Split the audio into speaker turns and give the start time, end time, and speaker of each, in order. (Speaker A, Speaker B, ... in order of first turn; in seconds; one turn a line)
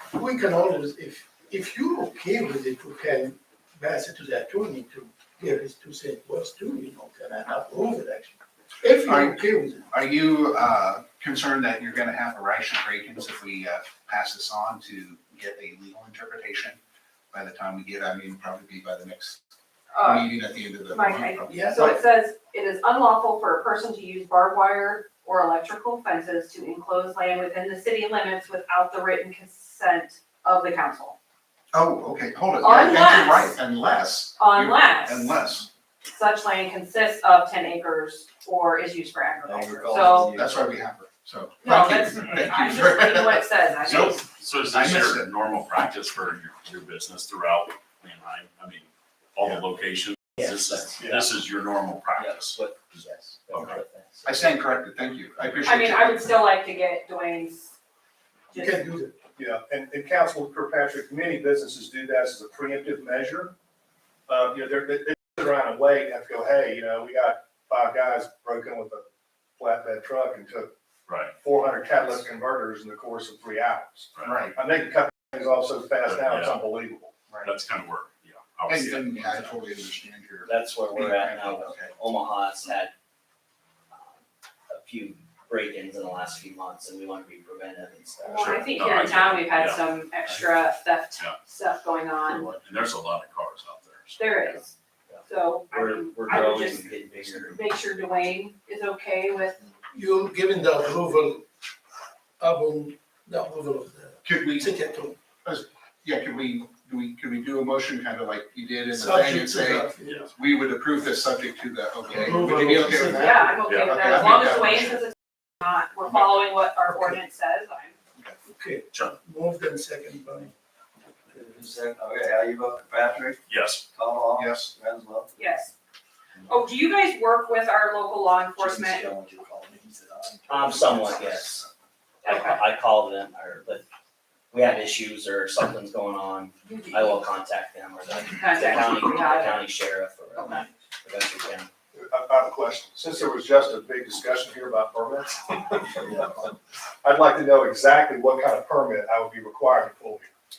Speaker A: 0.1-9.8
Speaker B: 9.0-16.8
Speaker B: 17.3-19.4
Speaker C: 19.9-20.3
Speaker B: 20.0-22.0
Speaker C: 20.8-31.2
Speaker A: 21.5-21.9
Speaker B: 31.7-35.7
Speaker C: 32.6-33.6
Speaker C: 34.4-35.4
Speaker C: 36.1-40.3
Speaker D: 39.5-40.7
Speaker B: 40.3-45.3
Speaker C: 41.6-44.2
Speaker E: 42.2-42.5
Speaker E: 43.8-53.8
Speaker F: 51.0-51.3
Speaker G: 52.2-54.3
Speaker B: 54.2-56.4
Speaker C: 55.6-57.7
Speaker C: 58.5-58.9
Speaker A: 58.5-59.2
Speaker F: 59.3-63.5
Speaker F: 64.3-69.1
Speaker F: 69.6-70.7
Speaker E: 71.1-71.3
Speaker F: 71.4-77.3
Speaker E: 74.2-74.5
Speaker B: 74.2-74.5
Speaker E: 76.0-76.7
Speaker E: 77.4-79.6
Speaker B: 78.7-81.9
Speaker G: 80.5-82.9
Speaker G: 84.7-88.5
Speaker C: 88.2-92.5
Speaker E: 88.4-90.5
Speaker E: 92.3-94.6
Speaker C: 94.2-94.7
Speaker C: 95.2-99.6
Speaker G: 95.7-97.6
Speaker A: 99.9-101.5
Speaker A: 102.4-105.2
Speaker B: 104.2-104.7
Speaker B: 105.4-115.0
Speaker A: 108.9-110.3
Speaker A: 112.0-113.7
Speaker C: 113.1-118.0
Speaker E: 113.7-114.5
Speaker A: 118.5-120.5
Speaker E: 118.9-119.2
Speaker D: 121.3-123.4
Speaker E: 123.5-123.9
Speaker D: 123.9-125.3
Speaker B: 124.4-124.7
Speaker C: 125.3-125.7
Speaker C: 126.5-129.1
Speaker D: 128.6-131.7
Speaker G: 130.5-131.6
Speaker G: 132.2-133.8
Speaker C: 132.3-132.6
Speaker G: 134.5-141.7
Speaker C: 136.7-137.2
Speaker C: 138.2-139.6
Speaker F: 141.9-145.9
Speaker F: 147.0-150.3